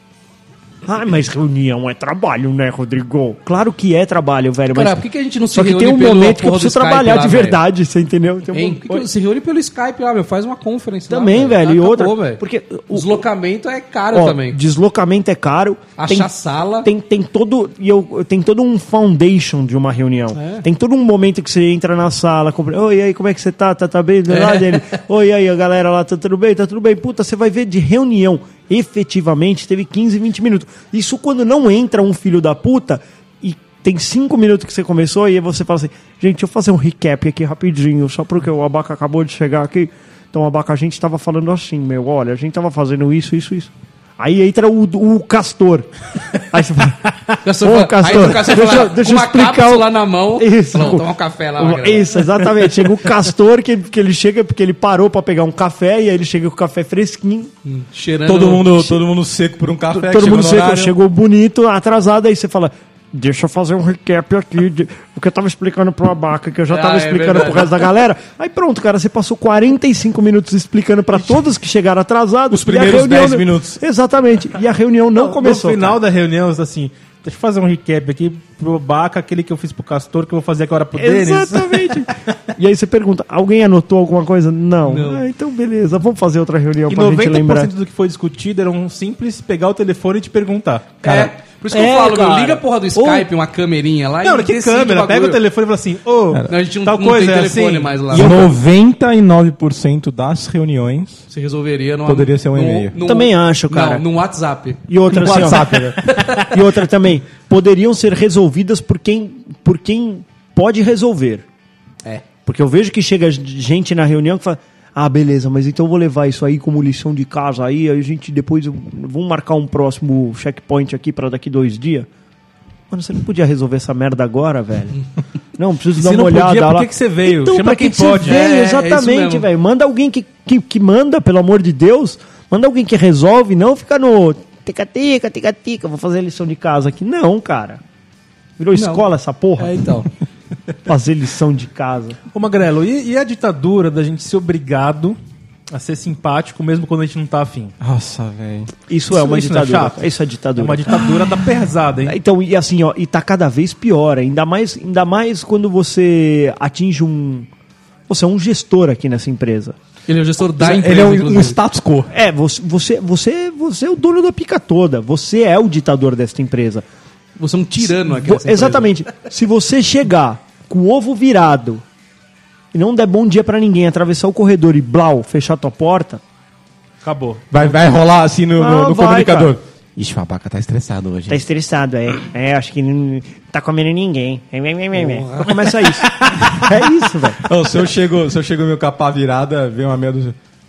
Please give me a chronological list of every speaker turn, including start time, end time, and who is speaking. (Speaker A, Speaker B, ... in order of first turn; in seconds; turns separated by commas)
Speaker A: 0.8-9.1, Speaker B: 4.7-7.6, Speaker B: 8.5-14.6, Speaker A: 11.1-13.3, Speaker A: 14.1-16.3, Speaker B: 16.0-16.9, Speaker A: 16.8-57.5, Speaker B: 20.3-20.6, Speaker B: 24.3-25.0, Speaker B: 47.4-52.4, Speaker B: 57.6-58.8, Speaker C: 58.3-60.9, Speaker A: 59.9-76.0, Speaker B: 66.7-67.8, Speaker C: 72.5-73.8, Speaker D: 75.2-82.1, Speaker A: 81.0-87.7, Speaker B: 84.8-85.2, Speaker D: 86.9-91.0, Speaker B: 91.0-95.4, Speaker C: 91.0-91.3, Speaker A: 91.7-92.7, Speaker D: 94.2-98.5, Speaker B: 96.5-98.4, Speaker C: 98.1-101.3, Speaker B: 101.3-106.5, Speaker C: 102.0-103.0, Speaker A: 103.0-104.1, Speaker A: 104.9-105.8, Speaker C: 105.1-106.0, Speaker A: 106.4-111.5, Speaker A: 112.5-122.1, Speaker A: 122.9-125.0, Speaker A: 125.6-137.8, Speaker D: 126.0-128.4, Speaker B: 128.2-129.5, Speaker A: 138.6-139.9, Speaker B: 138.7-139.1, Speaker B: 139.6-140.1, Speaker A: 140.8-142.2, Speaker D: 142.3-145.2, Speaker D: 145.7-147.7, Speaker C: 147.8-148.7, Speaker A: 148.9-151.1, Speaker D: 149.1-152.2, Speaker A: 152.1-157.5, Speaker A: 158.1-159.8, Speaker B: 160.1-161.6, Speaker C: 160.6-162.1, Speaker A: 162.1-166.8, Speaker B: 167.4-168.9, Speaker A: 167.8-171.8, Speaker A: 172.7-176.2, Speaker D: 177.0-177.5, Speaker C: 177.5-181.4, Speaker A: 178.6-179.6, Speaker A: 181.3-187.4, Speaker B: 185.0-185.5, Speaker C: 187.4-190.4